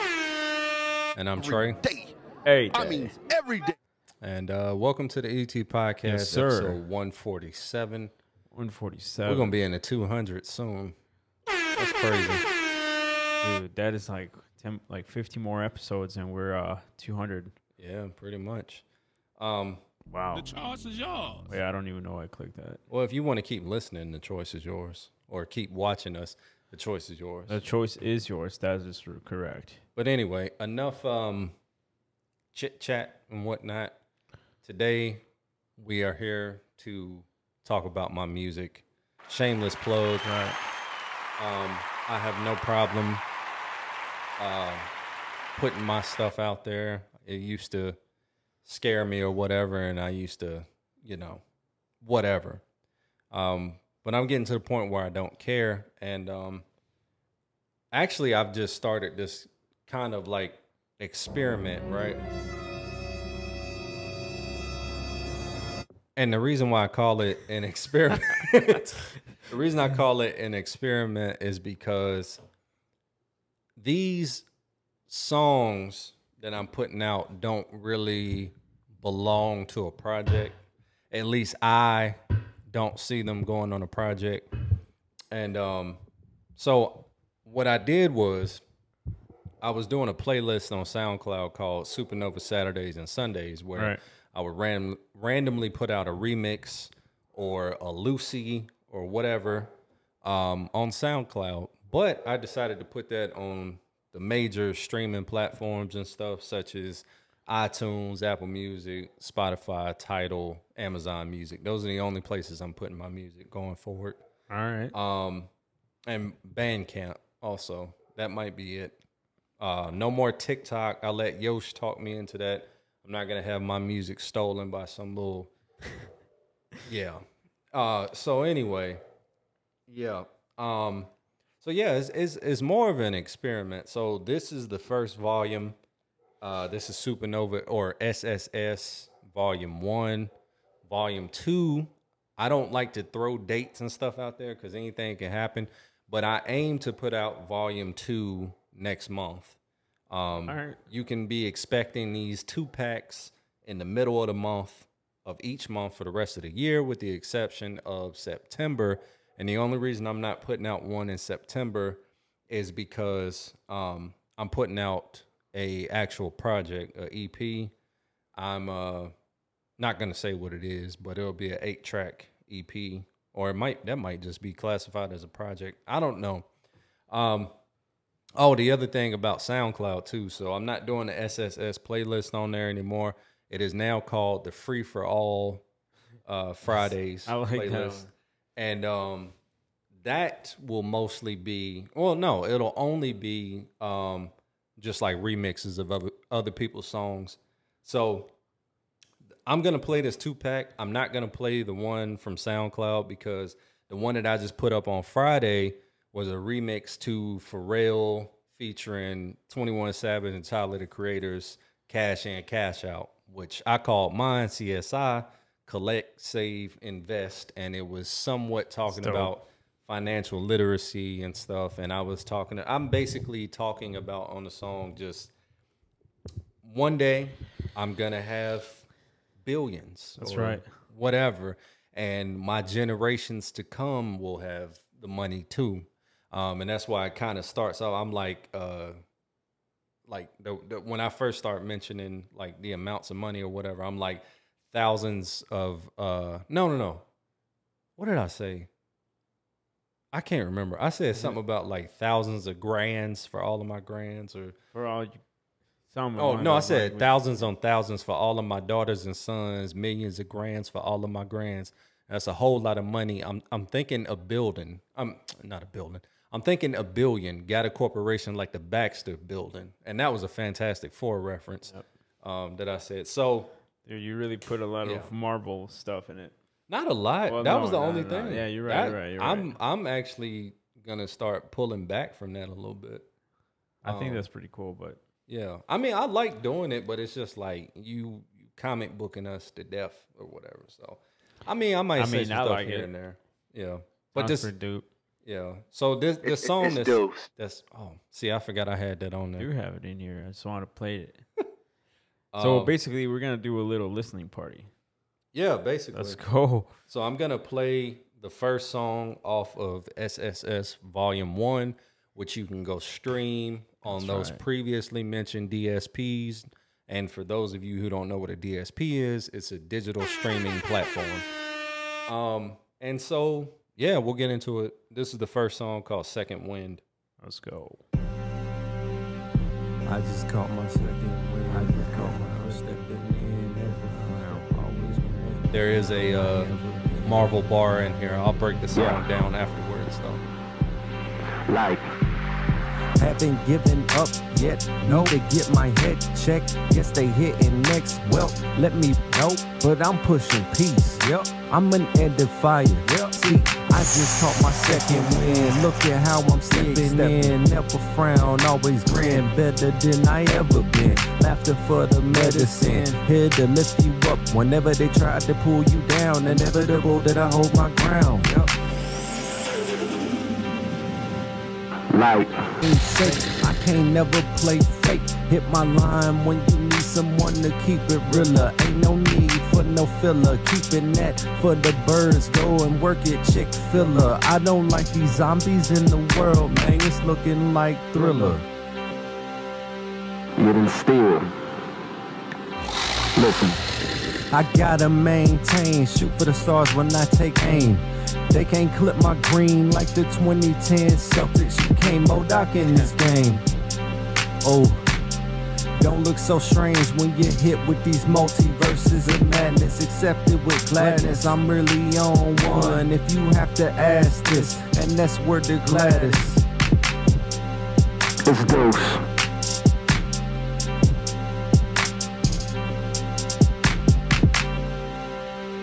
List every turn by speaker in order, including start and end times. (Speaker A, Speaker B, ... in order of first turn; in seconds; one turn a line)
Speaker A: 1.1-1.8
Speaker B: 1.5-2.1
Speaker C: 2.4-3.2
Speaker B: 2.7-3.7
Speaker A: 4.2-8.1
Speaker C: 6.0-6.8
Speaker C: 8.5-9.6
Speaker A: 9.2-11.0
Speaker A: 11.8-12.4
Speaker C: 13.4-17.6
Speaker A: 17.8-18.8
Speaker A: 19.4-19.8
Speaker C: 20.1-20.5
Speaker B: 20.3-21.6
Speaker C: 21.5-22.8
Speaker A: 22.9-27.6
Speaker C: 27.5-29.8
Speaker A: 30.0-31.5
Speaker A: 32.5-34.0
Speaker A: 34.6-35.2
Speaker A: 35.8-40.3
Speaker C: 40.2-40.6
Speaker A: 41.4-43.2
Speaker A: 44.4-44.9
Speaker A: 45.6-48.0
Speaker A: 48.6-51.4
Speaker A: 52.0-52.6
Speaker A: 53.3-56.6
Speaker A: 57.9-62.2
Speaker A: 66.2-72.4
Speaker A: 73.8-74.5
Speaker A: 75.1-80.6
Speaker A: 81.1-84.5
Speaker A: 85.3-86.0
Speaker A: 86.6-88.6
Speaker A: 89.6-99.7
Speaker A: 100.2-114.2
Speaker C: 114.5-114.9
Speaker A: 114.9-115.5
Speaker A: 116.1-119.0
Speaker A: 119.6-125.5
Speaker A: 126.8-129.0
Speaker A: 129.9-131.1
Speaker A: 131.6-135.8
Speaker A: 136.4-140.3
Speaker A: 140.8-149.6
Speaker A: 150.1-167.7
Speaker C: 150.5-150.8
Speaker A: 168.4-169.1
Speaker A: 169.8-176.5
Speaker A: 177.1-177.5
Speaker A: 178.4-185.6
Speaker A: 186.2-189.3
Speaker C: 186.7-188.1
Speaker A: 190.0-198.3
Speaker A: 199.5-225.3
Speaker C: 218.9-219.3
Speaker A: 226.6-228.9
Speaker A: 229.4-239.0
Speaker C: 230.2-230.7
Speaker A: 240.1-247.1
Speaker A: 248.0-248.7
Speaker A: 250.1-254.6
Speaker C: 254.7-255.2
Speaker C: 255.9-257.1
Speaker A: 256.2-273.5
Speaker C: 273.9-276.4
Speaker A: 274.8-275.1
Speaker A: 276.7-283.1
Speaker C: 277.3-279.6
Speaker A: 283.8-284.3
Speaker C: 283.8-285.0
Speaker A: 285.3-294.5
Speaker C: 291.9-292.9
Speaker C: 294.1-294.9
Speaker A: 295.2-299.5
Speaker D: 296.3-297.2
Speaker C: 299.4-301.2
Speaker A: 302.3-302.8
Speaker C: 302.4-304.7
Speaker A: 305.3-306.2
Speaker C: 305.9-306.8
Speaker A: 306.9-321.3
Speaker C: 313.9-314.4
Speaker A: 322.1-326.8
Speaker C: 327.2-327.8
Speaker E: 329.9-337.3
Speaker D: 331.5-332.3
Speaker A: 335.5-340.2
Speaker D: 341.5-341.9
Speaker E: 343.0-368.5
Speaker D: 356.5-357.4
Speaker D: 362.4-362.9
Speaker D: 371.9-372.5
Speaker E: 372.6-388.4
Speaker A: 388.0-388.3
Speaker D: 390.4-391.3
Speaker D: 393.2-393.6
Speaker E: 394.3-403.4
Speaker E: 404.4-404.9
Speaker E: 405.8-416.4
Speaker D: 410.8-411.2
Speaker D: 418.2-419.1